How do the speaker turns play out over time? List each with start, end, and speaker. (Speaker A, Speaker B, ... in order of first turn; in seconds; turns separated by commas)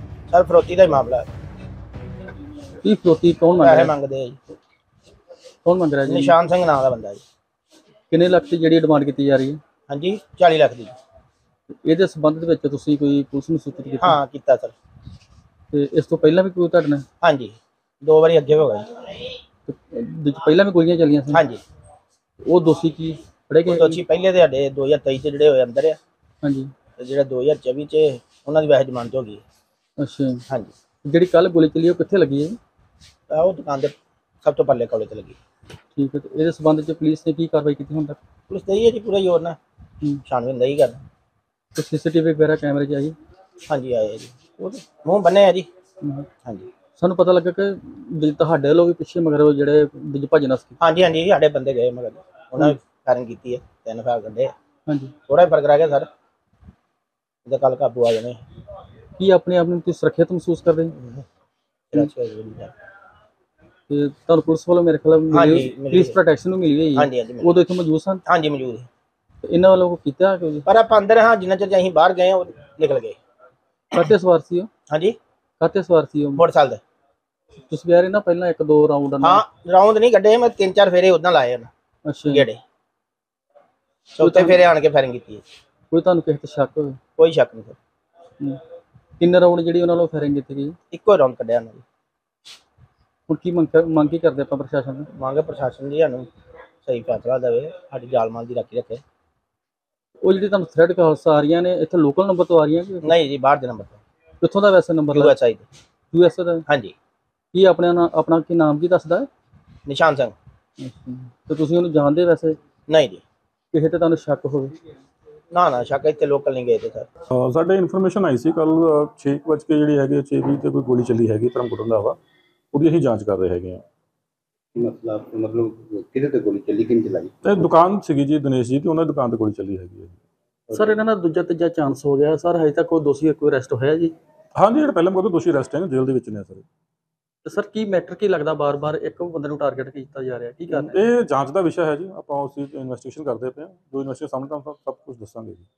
Speaker A: 0.3-1.3, Speaker B: 2.8-3.9, Speaker A: 3.6-4.4, Speaker B: 5.7-6.4, Speaker A: 6.1-7.2, Speaker B: 8.1-9.6, Speaker A: 9.9-10.9, Speaker B: 11.7-14.2, Speaker A: 14.0-14.7, Speaker B: 15.7-17.1, Speaker A: 17.2-19.1, Speaker B: 19.7-21.5, Speaker A: 21.3-21.6, Speaker B: 22.4-24.0, Speaker A: 23.7-26.0, Speaker B: 26.4-26.7, Speaker A: 27.0-29.4, Speaker B: 30.0-30.4, Speaker A: 30.5-30.7, Speaker B: 31.1-32.6, Speaker A: 33.3-35.4, Speaker B: 36.0-38.2, Speaker A: 38.5-39.6, Speaker A: 40.3-41.0, Speaker B: 41.8-43.2, Speaker A: 43.7-45.7, Speaker B: 47.0-50.8, Speaker A: 50.8-54.5, Speaker B: 54.9-55.1, Speaker A: 55.3-56.1, Speaker A: 57.5-58.4, Speaker B: 59.2-61.0, Speaker A: 61.9-62.7, Speaker B: 63.9-68.2, Speaker A: 65.3-66.2, Speaker A: 67.0-67.6, Speaker A: 68.3-68.9, Speaker B: 69.4-70.7, Speaker A: 70.7-73.2, Speaker B: 74.0-74.7, Speaker A: 74.9-75.2, Speaker B: 75.6-76.4, Speaker A: 76.4-76.8, Speaker B: 77.7-79.4, Speaker A: 79.2-81.7, Speaker B: 82.1-82.5, Speaker A: 82.3-82.6, Speaker A: 84.2-85.4, Speaker B: 84.2-84.7, Speaker B: 85.9-87.0, Speaker A: 87.2-87.8, Speaker B: 89.2-90.8, Speaker A: 90.9-91.8, Speaker B: 93.3-95.1, Speaker A: 95.1-96.3, Speaker A: 96.8-99.0, Speaker B: 100.2-103.2, Speaker A: 103.0-104.0, Speaker B: 104.4-105.3, Speaker A: 105.1-105.7, Speaker B: 106.1-106.7, Speaker A: 106.7-107.0, Speaker B: 107.5-109.3, Speaker A: 109.9-110.3, Speaker B: 110.8-112.6, Speaker A: 112.9-113.2, Speaker B: 113.7-114.7, Speaker A: 115.5-117.1, Speaker C: 117.3-122.2, Speaker C: 122.7-123.8, Speaker D: 124.8-127.3, Speaker C: 127.4-130.2, Speaker D: 130.7-131.0, Speaker B: 130.7-134.1, Speaker C: 134.6-136.7, Speaker B: 137.5-141.1, Speaker C: 140.7-145.7